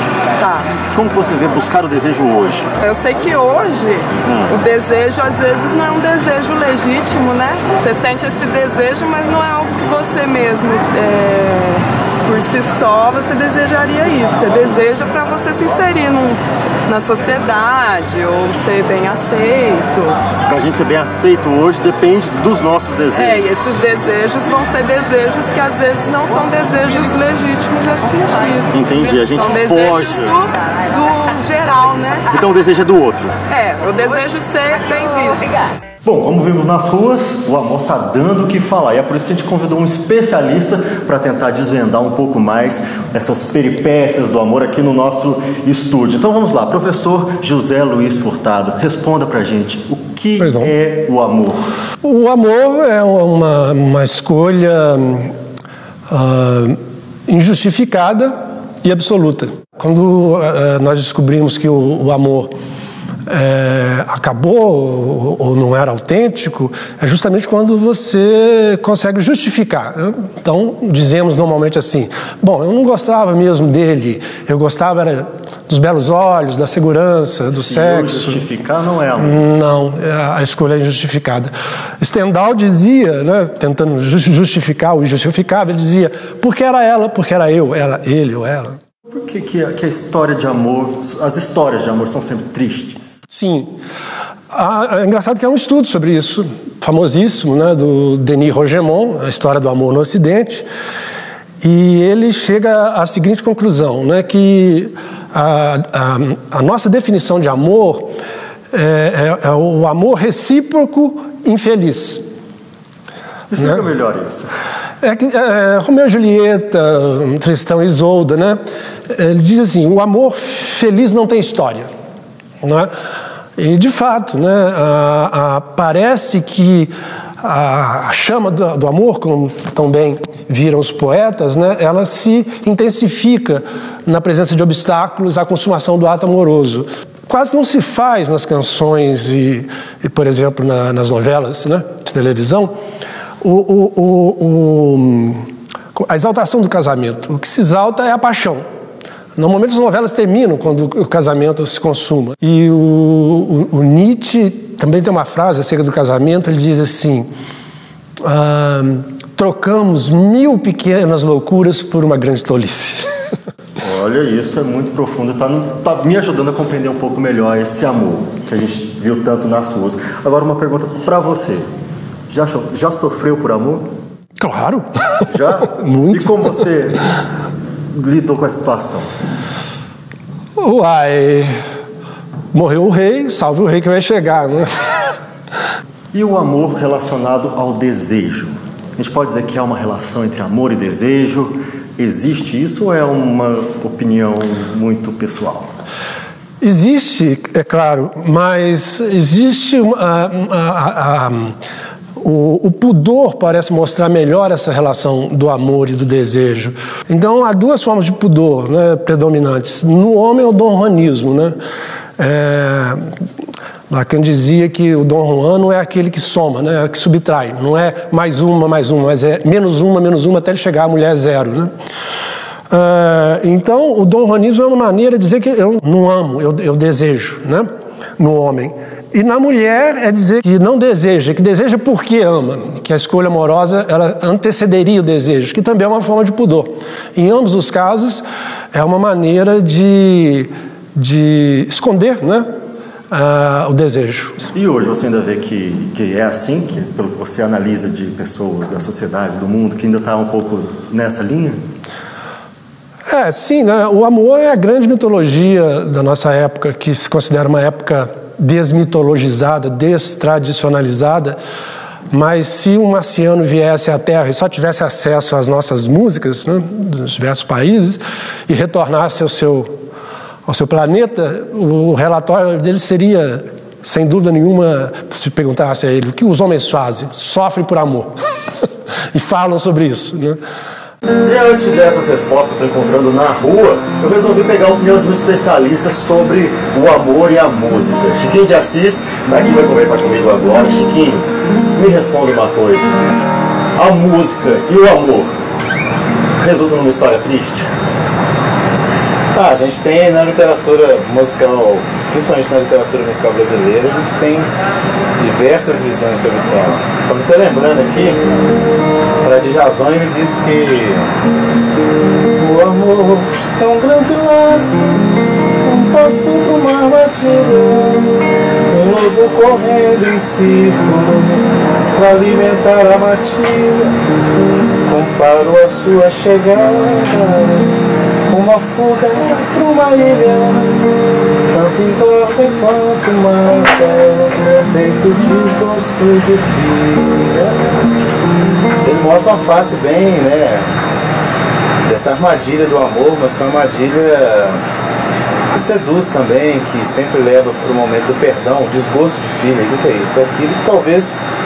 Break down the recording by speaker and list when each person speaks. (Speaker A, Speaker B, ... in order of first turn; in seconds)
Speaker A: 0.9-2.7, 4.2-4.6, 20.4-23.7, 28.7-30.4, 32.3-33.4, 36.0-51.6, 77.5-79.5, 89.1-93.2, 113.5-114.5, 163.8-171.7, 172.3-173.9, 175.3-177.0, 177.9-179.1, 186.1-195.7, 244.5-251.6, 281.2-293.0, 293.8-295.3, 296.4-297.7
Speaker B: 2.9-20.2, 23.1-32.2, 33.5-35.5
Speaker C: 50.4-50.7, 52.0-55.3, 56.1-56.8, 57.3-58.3, 58.8-62.5, 63.3-78.4, 79.2-88.8, 93.3-93.7, 94.5-100.7, 101.6-108.1, 108.7-112.2, 115.0-118.6, 119.1-121.9, 122.6-122.9, 123.6-142.7, 143.4-148.6, 149.4-157.3, 158.2-163.0, 174.4-176.7, 180.6-181.5, 182.5-184.7, 196.6-201.6, 202.2-211.5, 212.2-213.0, 213.9-221.7, 222.7-227.7, 228.2-242.4, 243.1-244.5, 253.1-261.4, 262.1-269.7, 270.5-278.1, 279.1-280.4
Speaker D: 299.3-304.5, 305.2-308.2, 309.2-311.1, 312.3-314.9, 315.6-324.0, 324.9-327.7, 328.3-330.9, 331.5-337.8, 338.8-340.7, 341.8-344.6, 345.5-351.2